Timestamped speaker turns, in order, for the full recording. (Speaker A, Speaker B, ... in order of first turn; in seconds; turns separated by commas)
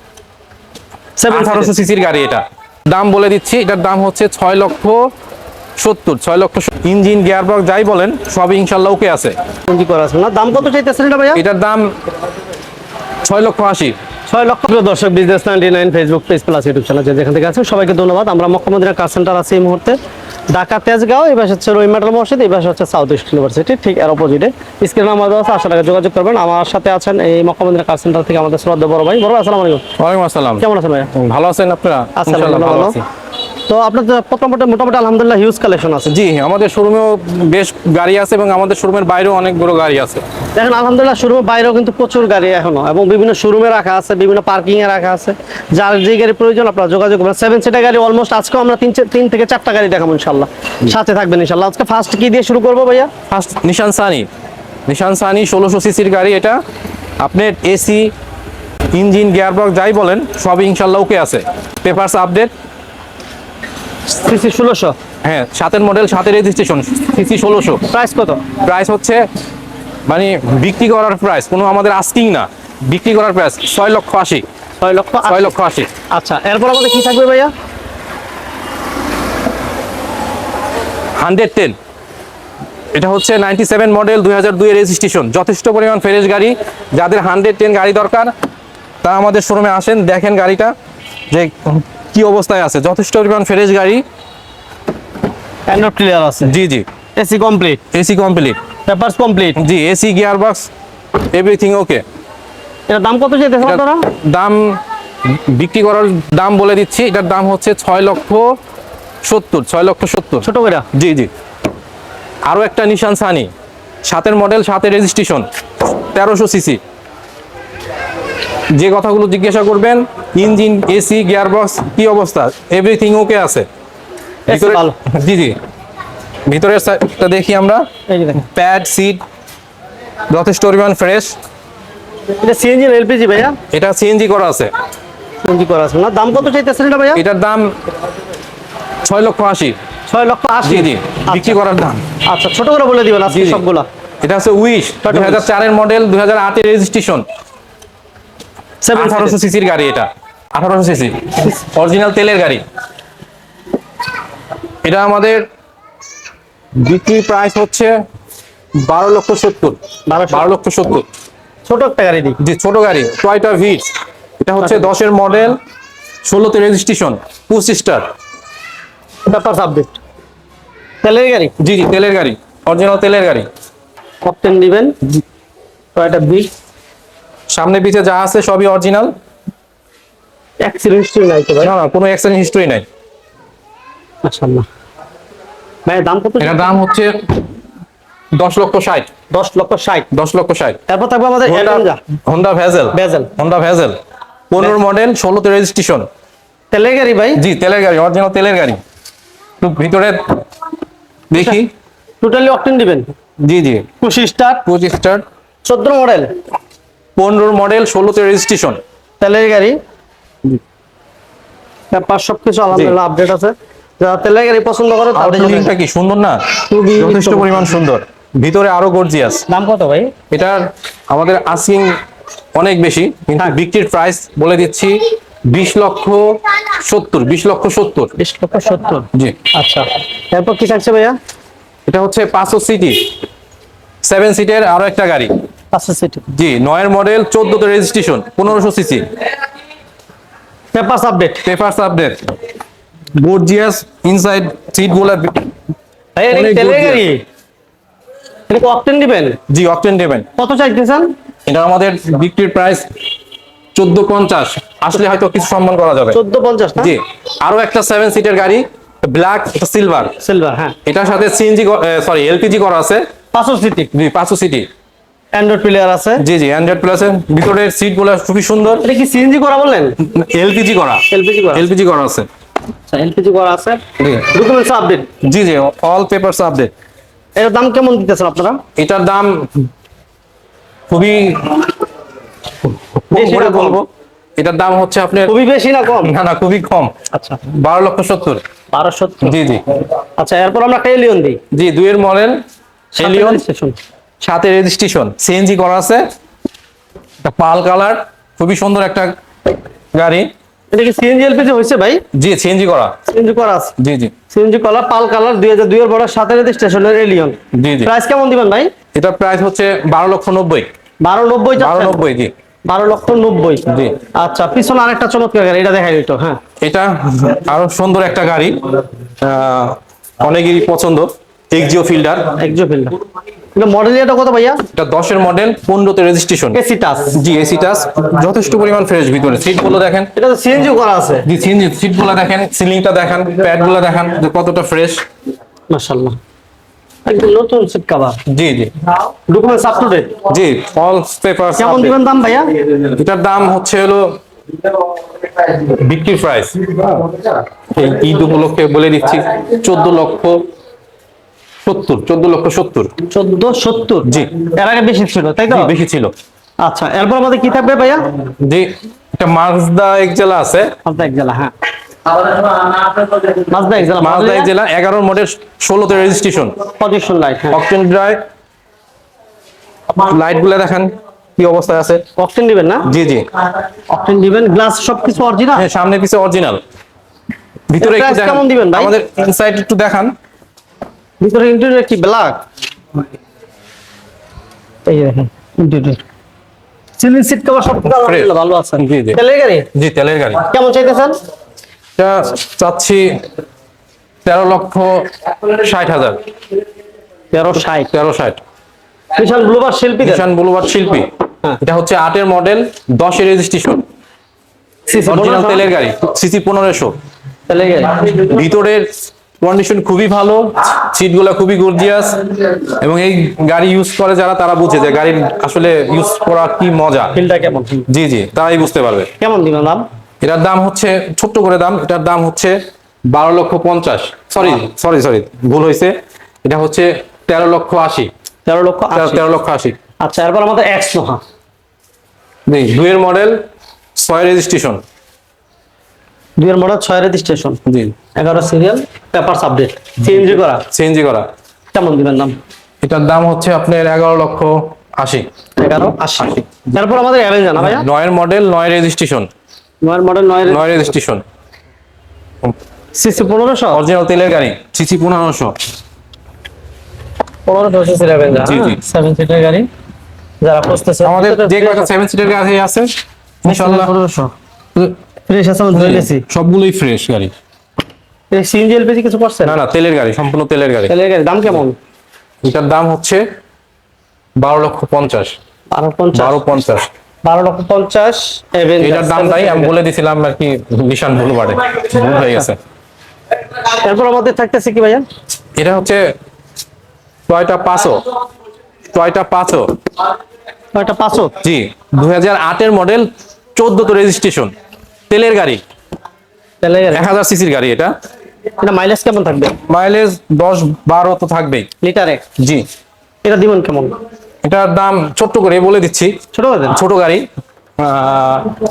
Speaker A: 1.2-1.7, Speaker B: 1.3-5.1, Speaker B: 5.8-9.4, Speaker A: 9.7-11.4, Speaker B: 11.3-11.9, Speaker B: 13.2-13.9, Speaker A: 14.3-20.0, Speaker A: 20.5-29.8, Speaker B: 30.0-33.0, Speaker A: 30.6-31.1, Speaker A: 32.2-33.0, Speaker A: 33.7-36.1, Speaker B: 36.1-40.2, Speaker A: 40.6-53.1, Speaker B: 53.3-54.3, Speaker B: 54.9-56.6, Speaker B: 57.2-58.1, Speaker B: 58.9-62.5, Speaker A: 64.1-65.0, Speaker B: 65.2-67.8, Speaker A: 67.9-68.4, Speaker B: 68.6-69.2, Speaker B: 70.1-74.4, Speaker A: 74.8-75.5, Speaker B: 75.3-75.9, Speaker A: 76.1-77.5, Speaker B: 81.2-81.8, Speaker B: 82.9-88.3, Speaker B: 89.0-90.8, Speaker B: 91.3-94.0, Speaker A: 95.7-96.5, Speaker B: 96.5-96.9, Speaker A: 97.2-97.8, Speaker B: 97.9-98.6, Speaker A: 98.9-99.6, Speaker B: 99.6-100.7, Speaker B: 101.3-102.0, Speaker A: 102.9-104.0, Speaker B: 103.6-104.8, Speaker B: 105.3-108.5, Speaker B: 109.2-111.3, Speaker A: 110.4-110.9, Speaker B: 112.5-113.5, Speaker B: 114.1-116.8, Speaker B: 118.8-123.7, Speaker A: 124.5-125.0, Speaker B: 124.5-125.6, Speaker B: 126.5-127.9, Speaker A: 128.1-128.4, Speaker B: 128.4-129.2, Speaker B: 130.3-131.4, Speaker A: 132.4-133.6, Speaker B: 133.7-134.7, Speaker A: 135.4-137.2, Speaker B: 137.2-137.8, Speaker B: 139.0-139.8, Speaker A: 140.1-141.6, Speaker B: 140.6-142.1, Speaker A: 142.2-143.9, Speaker B: 143.3-143.6, Speaker B: 144.2-147.2, Speaker A: 145.0-145.5, Speaker A: 148.8-149.4, Speaker B: 148.9-152.6, Speaker B: 154.8-155.4, Speaker B: 156.8-158.0, Speaker B: 158.8-159.8, Speaker A: 160.1-160.5, Speaker B: 160.3-161.1, Speaker A: 161.7-162.4, Speaker B: 162.4-163.9, Speaker B: 164.4-165.6, Speaker A: 164.6-164.9, Speaker B: 166.2-168.1, Speaker A: 169.3-170.0, Speaker A: 171.0-171.5, Speaker B: 171.6-173.5, Speaker A: 174.2-175.0, Speaker A: 175.9-176.5, Speaker B: 177.5-179.1, Speaker A: 180.6-181.7, Speaker B: 181.6-182.8, Speaker A: 184.2-184.7, Speaker A: 185.9-186.7, Speaker B: 186.4-187.2, Speaker B: 188.3-189.1, Speaker A: 189.3-190.1, Speaker B: 190.1-190.8, Speaker A: 190.9-192.0, Speaker B: 191.4-194.0, Speaker A: 192.9-193.3, Speaker B: 194.5-196.1, Speaker A: 196.7-197.4, Speaker B: 197.4-198.8, Speaker B: 199.6-200.4, Speaker B: 201.3-201.7, Speaker A: 201.3-201.6, Speaker A: 202.2-203.1, Speaker B: 203.4-203.9, Speaker A: 204.0-204.7, Speaker B: 204.7-205.2, Speaker A: 205.7-206.3, Speaker B: 207.2-208.8, Speaker A: 209.2-209.8, Speaker A: 211.9-215.7, Speaker B: 215.2-219.4, Speaker A: 216.7-217.8, Speaker A: 219.5-220.1, Speaker B: 220.3-221.9, Speaker B: 222.6-228.1, Speaker A: 228.2-231.2, Speaker B: 231.9-233.1, Speaker B: 234.0-235.3, Speaker A: 235.7-236.3, Speaker B: 236.3-239.1, Speaker A: 240.7-241.4, Speaker B: 241.4-242.2, Speaker B: 243.2-245.5, Speaker A: 246.2-247.2, Speaker B: 246.3-247.0, Speaker A: 248.5-249.4, Speaker B: 249.5-250.3, Speaker A: 250.4-251.1, Speaker B: 251.5-252.9, Speaker B: 253.8-256.2, Speaker A: 256.1-256.9, Speaker B: 256.8-260.2, Speaker A: 260.2-260.8, Speaker B: 260.9-263.1, Speaker A: 263.3-263.9, Speaker B: 263.9-264.7, Speaker A: 265.3-266.2, Speaker B: 266.2-268.9, Speaker A: 268.8-270.0, Speaker B: 270.0-272.3, Speaker A: 271.1-271.7, Speaker A: 272.9-275.1, Speaker B: 274.0-274.3, Speaker B: 275.2-276.7, Speaker A: 277.4-278.6, Speaker B: 278.8-279.6, Speaker B: 280.9-281.7, Speaker B: 282.9-283.9, Speaker A: 283.1-283.8, Speaker B: 284.4-285.3, Speaker A: 285.3-286.1, Speaker B: 286.0-286.9, Speaker A: 287.1-287.4, Speaker B: 287.4-288.4, Speaker A: 288.7-289.4, Speaker B: 289.2-289.6, Speaker A: 290.2-291.4, Speaker B: 291.5-292.4, Speaker A: 292.9-293.8, Speaker B: 293.0-293.4, Speaker B: 294.2-296.0, Speaker B: 297.2-299.1, Speaker B: 299.9-300.3, Speaker A: 300.7-302.0, Speaker B: 302.1-303.0, Speaker A: 303.1-303.8, Speaker B: 303.8-304.1, Speaker A: 304.3-308.7, Speaker B: 307.5-307.9, Speaker B: 308.9-310.7, Speaker A: 311.0-312.0, Speaker B: 311.6-312.3, Speaker A: 312.7-313.6, Speaker B: 313.7-314.0, Speaker A: 314.1-316.4, Speaker B: 316.6-322.3, Speaker A: 322.4-322.9, Speaker A: 323.6-324.6, Speaker B: 324.7-326.6, Speaker A: 326.5-327.2, Speaker B: 327.1-330.1, Speaker A: 330.2-331.3, Speaker B: 331.3-335.0, Speaker A: 335.7-336.2, Speaker A: 337.1-338.2, Speaker B: 338.3-338.7, Speaker A: 339.3-340.2, Speaker B: 340.3-342.0, Speaker A: 341.6-342.5, Speaker B: 342.9-344.2, Speaker B: 345.4-347.2, Speaker B: 347.7-350.4, Speaker B: 351.7-352.9, Speaker A: 353.1-355.7, Speaker B: 354.1-354.4, Speaker B: 355.5-356.1, Speaker A: 356.6-358.1, Speaker B: 358.4-360.7, Speaker A: 360.9-361.5, Speaker A: 362.4-364.5, Speaker B: 364.0-366.6, Speaker A: 366.8-367.6, Speaker B: 367.5-368.2, Speaker B: 370.0-372.1, Speaker A: 372.2-372.9, Speaker B: 372.9-373.3, Speaker A: 373.9-375.6, Speaker B: 375.6-376.6, Speaker B: 377.7-380.1, Speaker A: 377.8-378.9, Speaker A: 381.2-382.4, Speaker A: 384.9-386.0, Speaker A: 387.0-389.7, Speaker B: 387.9-389.2, Speaker B: 389.7-390.4, Speaker A: 390.4-391.2, Speaker B: 392.0-393.2, Speaker B: 394.2-396.2, Speaker A: 397.3-397.9, Speaker B: 397.9-398.4, Speaker A: 399.2-400.3, Speaker B: 400.0-401.1, Speaker B: 401.6-403.8, Speaker A: 404.9-405.7, Speaker B: 405.1-406.9, Speaker A: 407.5-408.2, Speaker B: 408.0-408.9, Speaker B: 409.4-417.2, Speaker A: 417.1-417.9, Speaker B: 417.9-419.1, Speaker A: 419.2-419.9, Speaker B: 420.2-422.6, Speaker B: 423.1-428.1, Speaker A: 428.5-429.2, Speaker B: 428.9-429.8, Speaker A: 430.0-431.2, Speaker B: 432.5-433.4, Speaker B: 434.0-434.8, Speaker A: 436.4-437.6, Speaker B: 437.7-437.9, Speaker A: 438.2-440.6, Speaker B: 440.7-441.3, Speaker A: 441.7-442.4, Speaker B: 442.8-445.3, Speaker A: 445.6-447.9, Speaker B: 446.2-446.6, Speaker B: 447.6-449.3, Speaker A: 449.8-450.6, Speaker B: 450.5-451.2, Speaker A: 452.9-453.8, Speaker B: 453.7-455.6, Speaker A: 457.5-459.7, Speaker B: 458.4-458.8, Speaker A: 460.4-461.9, Speaker B: 461.0-462.9, Speaker B: 463.4-463.9, Speaker A: 463.5-464.3, Speaker A: 465.3-466.2, Speaker B: 465.8-467.3, Speaker A: 468.3-469.6, Speaker B: 469.4-470.9, Speaker A: 470.9-471.8, Speaker B: 472.4-473.2, Speaker B: 474.4-475.4, Speaker A: 475.7-476.4, Speaker B: 476.1-476.9, Speaker A: 477.2-479.7, Speaker B: 478.8-482.6, Speaker A: 483.6-485.1, Speaker B: 485.6-486.0, Speaker B: 487.3-488.0, Speaker B: 488.9-489.7, Speaker A: 490.7-491.4, Speaker B: 491.4-494.5, Speaker B: 495.1-495.6, Speaker A: 496.6-497.1, Speaker B: 496.9-497.9, Speaker A: 498.6-499.6, Speaker B: 499.7-501.7, Speaker A: 501.8-502.2, Speaker B: 502.4-502.6, Speaker A: 503.2-504.0, Speaker B: 504.4-506.1, Speaker A: 506.3-506.8, Speaker B: 506.7-507.3, Speaker B: 507.8-508.5